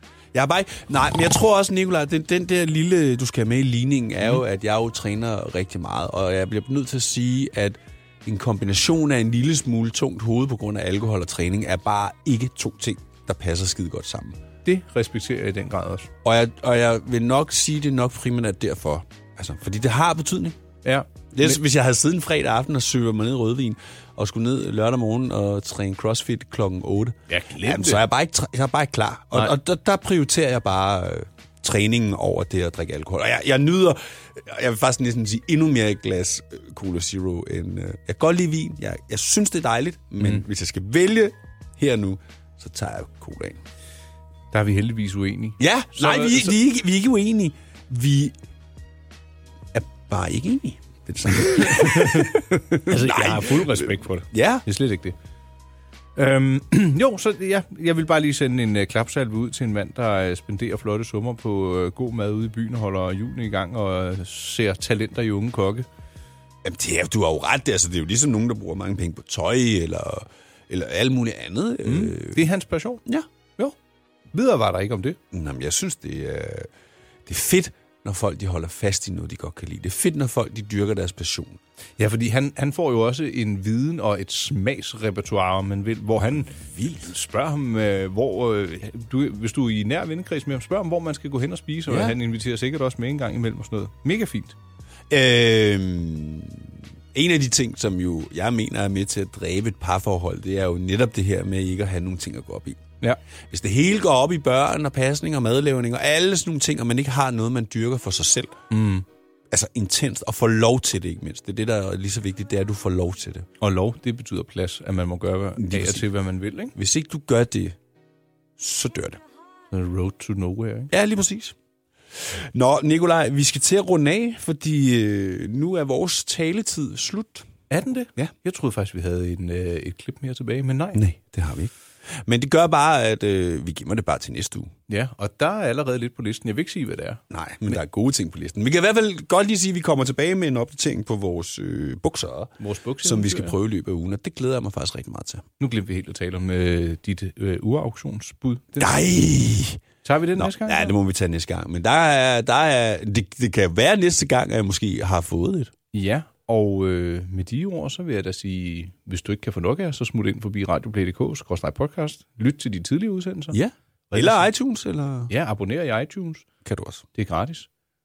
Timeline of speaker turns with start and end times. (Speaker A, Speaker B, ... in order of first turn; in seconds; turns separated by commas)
Speaker A: 0.3-14.4, Speaker B: 14.6-16.1, Speaker A: 16.2-20.6, Speaker B: 20.8-21.6, Speaker A: 21.3-43.6, Speaker B: 27.3-28.0, Speaker B: 44.5-46.5, Speaker A: 45.6-48.3, Speaker A: 49.7-54.6, Speaker B: 51.6-52.3, Speaker B: 52.9-55.1, Speaker B: 56.1-65.9, Speaker A: 66.6-72.4, Speaker B: 71.8-73.0, Speaker B: 74.3-75.2, Speaker A: 75.3-76.7, Speaker A: 77.2-81.6, Speaker B: 82.0-94.5, Speaker A: 86.7-87.1, Speaker A: 91.9-92.2, Speaker A: 95.1-102.8, Speaker A: 103.5-108.6, Speaker B: 108.7-109.0, Speaker A: 109.5-113.5, Speaker B: 113.6-116.7, Speaker A: 115.6-116.0, Speaker A: 116.7-117.8, Speaker A: 118.6-119.2, Speaker B: 119.7-120.9, Speaker A: 120.9-121.5, Speaker A: 122.2-127.5, Speaker B: 127.7-131.0, Speaker A: 130.9-134.7, Speaker B: 134.9-137.8, Speaker A: 137.3-145.4, Speaker B: 142.6-143.6, Speaker B: 145.6-149.0, Speaker A: 148.8-149.8, Speaker B: 150.0-150.9, Speaker A: 150.4-155.7, Speaker B: 155.9-163.6, Speaker A: 163.5-165.3, Speaker B: 164.1-164.5, Speaker B: 165.3-166.5, Speaker A: 166.6-167.0, Speaker B: 167.2-167.7